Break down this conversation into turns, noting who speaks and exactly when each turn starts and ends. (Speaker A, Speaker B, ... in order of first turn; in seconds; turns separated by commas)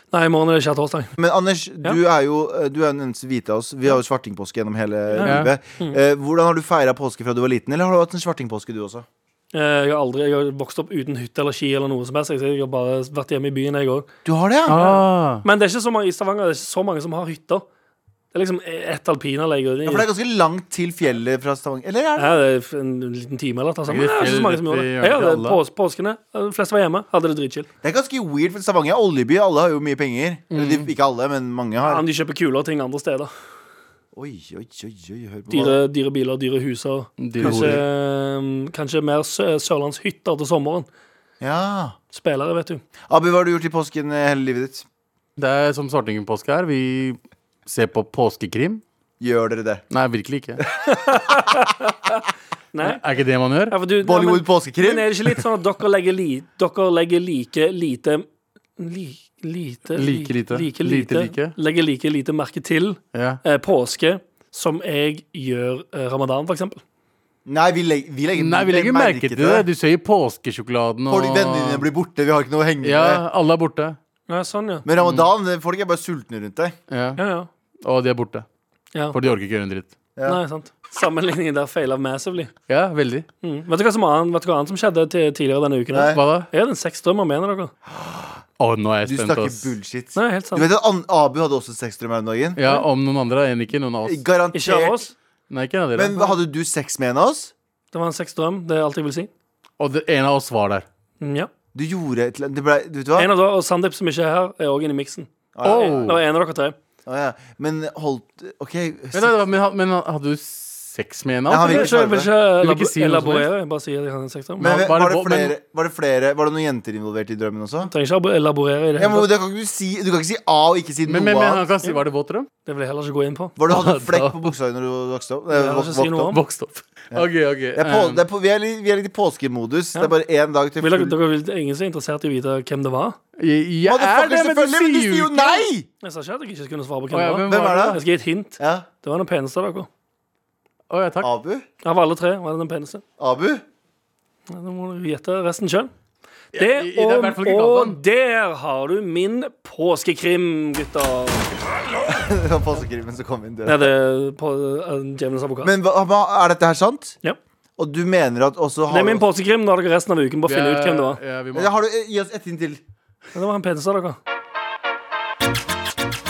Speaker A: 0.1-1.1, Speaker B: 1.2-9.1, Speaker A: 5.1-6.0, Speaker C: 5.2-5.5, Speaker A: 9.5-14.1, Speaker B: 14.2-14.8, Speaker C: 14.7-15.4, Speaker A: 14.7-17.7, Speaker A: 18.3-20.1, Speaker B: 19.8-22.4, Speaker A: 22.2-27.7, Speaker C: 23.9-25.6, Speaker B: 27.8-32.0, Speaker C: 30.5-30.9, Speaker A: 31.8-33.3, Speaker B: 34.1-35.8, Speaker A: 35.5-40.9, Speaker C: 37.2-37.8, Speaker B: 37.4-37.8, Speaker B: 41.4-42.0, Speaker A: 42.1-42.8, Speaker B: 43.1-44.9, Speaker C: 45.4-48.8, Speaker B: 49.2-49.8, Speaker C: 49.9-50.6, Speaker B: 50.6-50.9, Speaker A: 50.9-53.0, Speaker C: 52.8-53.8, Speaker A: 53.7-58.3, Speaker B: 54.0-55.5, Speaker A: 58.8-66.8, Speaker C: 60.0-61.5, Speaker C: 63.1-63.4, Speaker B: 67.5-69.7, Speaker C: 68.4-71.9, Speaker B: 71.1-73.2, Speaker C: 72.8-74.0, Speaker A: 74.3-74.9, Speaker B: 74.9-76.8, Speaker C: 75.0-75.3, Speaker C: 76.9-77.2, Speaker A: 77.2-77.5, Speaker C: 77.8-78.5, Speaker C: 79.1-79.9, Speaker A: 80.3-82.5, Speaker C: 82.7-83.3, Speaker A: 83.4-87.7, Speaker B: 85.9-86.2, Speaker C: 86.1-86.5, Speaker B: 87.9-88.4, Speaker C: 88.6-89.7, Speaker B: 89.0-92.8, Speaker A: 90.2-90.7, Speaker C: 92.6-94.2, Speaker B: 94.0-95.0, Speaker A: 94.5-95.1, Speaker C: 95.5-96.2, Speaker B: 96.0-97.5, Speaker A: 97.9-99.3, Speaker C: 99.8-100.8, Speaker A: 101.2-101.5, Speaker B: 101.7-103.3, Speaker A: 103.2-106.8, Speaker B: 105.5-106.2, Speaker C: 105.6-106.2, Speaker B: 107.1-109.4, Speaker C: 109.1-113.5, Speaker B: 111.5-112.3, Speaker A: 111.6-114.8, Speaker C: 114.6-115.5, Speaker B: 114.6-117.9, Speaker A: 117.8-119.3, Speaker B: 119.0-121.7, Speaker C: 121.1-122.5, Speaker A: 122.7-123.6, Speaker B: 123.6-126.4, Speaker C: 123.7-124.5, Speaker A: 125.5-126.4, Speaker C: 126.3-128.2, Speaker B: 127.1-131.2, Speaker A: 130.8-133.2, Speaker C: 133.4-135.7, Speaker B: 133.9-135.9, Speaker A: 136.0-139.9, Speaker C: 137.1-138.0, Speaker B: 137.5-138.0, Speaker B: 138.6-138.9, Speaker C: 140.9-141.3, Speaker B: 141.2-141.7, Speaker A: 141.8-143.0, Speaker B: 143.2-143.6, Speaker A: 144.5-145.9, Speaker C: 146.5-148.0, Speaker A: 146.6-151.5, Speaker B: 152.1-153.9, Speaker A: 153.7-155.7, Speaker B: 155.6-157.2, Speaker B: 157.8-159.2, Speaker A: 158.9-161.2, Speaker C: 160.5-161.8, Speaker B: 161.5-162.8, Speaker A: 163.3-164.2